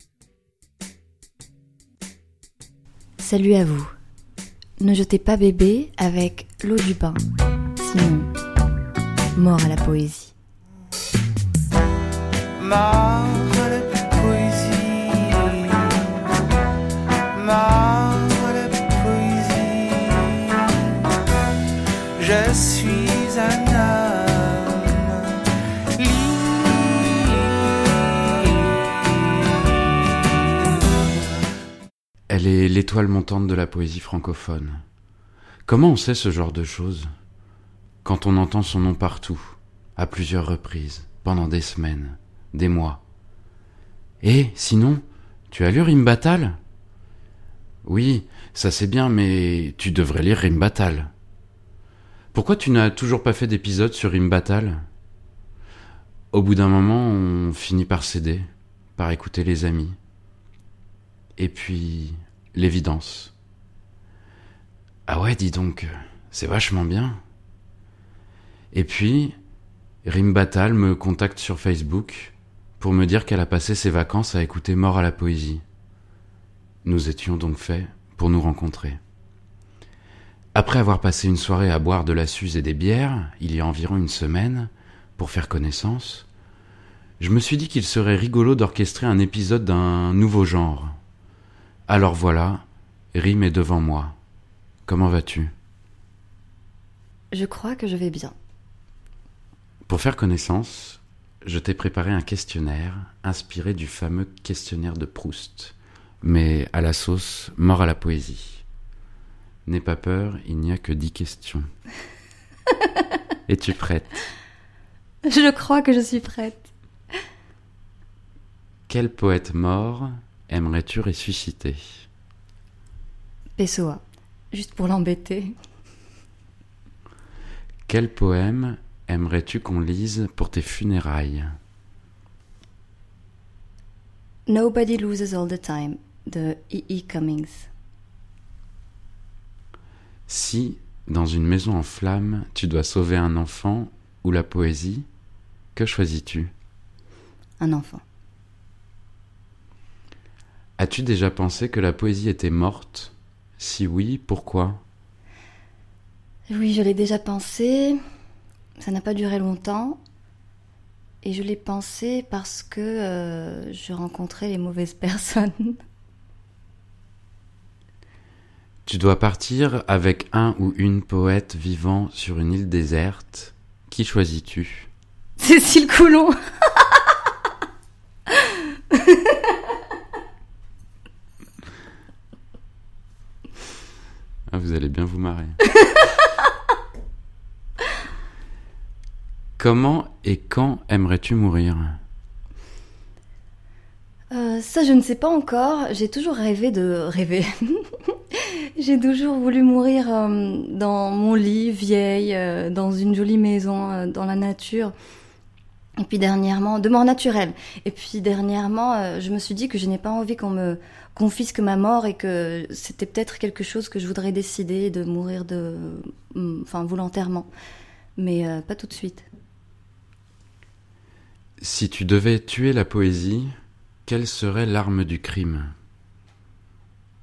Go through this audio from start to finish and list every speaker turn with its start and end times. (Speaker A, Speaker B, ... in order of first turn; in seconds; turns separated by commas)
Speaker A: 3.2-3.9, Speaker A: 4.8-7.2, Speaker A: 7.8-8.3, Speaker A: 9.4-10.3, Speaker B: 12.6-16.2, Speaker B: 17.4-21.1, Speaker B: 22.2-25.4, Speaker B: 25.9-27.3, Speaker C: 32.3-34.8, Speaker C: 35.7-37.1, Speaker C: 38.0-43.0, Speaker C: 44.2-46.6, Speaker C: 47.9-51.1, Speaker C: 52.3-54.9, Speaker C: 56.3-58.5, Speaker C: 59.0-60.0, Speaker C: 61.4-63.3, Speaker C: 65.1-67.2, Speaker C: 68.7-69.4, Speaker C: 70.0-75.6, Speaker C: 76.8-79.0, Speaker C: 80.5-86.3, Speaker C: 87.2-91.0, Speaker C: 91.9-94.2, Speaker C: 94.9-95.5, Speaker A: 97.3-98.3, Speaker C: 99.9-108.6, Speaker C: 109.7-111.7, Speaker C: 113.5-114.2, Speaker A: 115.3-116.7, Speaker C: 118.9-122.0, Speaker A: 123.6-125.5, Speaker C: 127.9-131.6, Speaker A: 134.5-137.7, Speaker C: 140.3-145.1, Speaker C: 145.8-146.5, Speaker A: 147.6-148.0, Speaker C: 150.8-154.8, Speaker A: 156.5-158.0, Speaker A: 158.8-160.0, Speaker A: 161.2-165.8, Speaker C: 168.9-174.9, Speaker A: 175.4-177.1, Speaker A: 178.4-179.4, Speaker C: 184.5-185.6, Speaker A: 185.8-186.1, Speaker C: 189.6-192.0, Speaker A: 194.3-204.9, Speaker A: 206.0-217.5, Speaker A: 218.2-219.3, Speaker C: 221.6-223.5, Speaker C: 224.1-225.7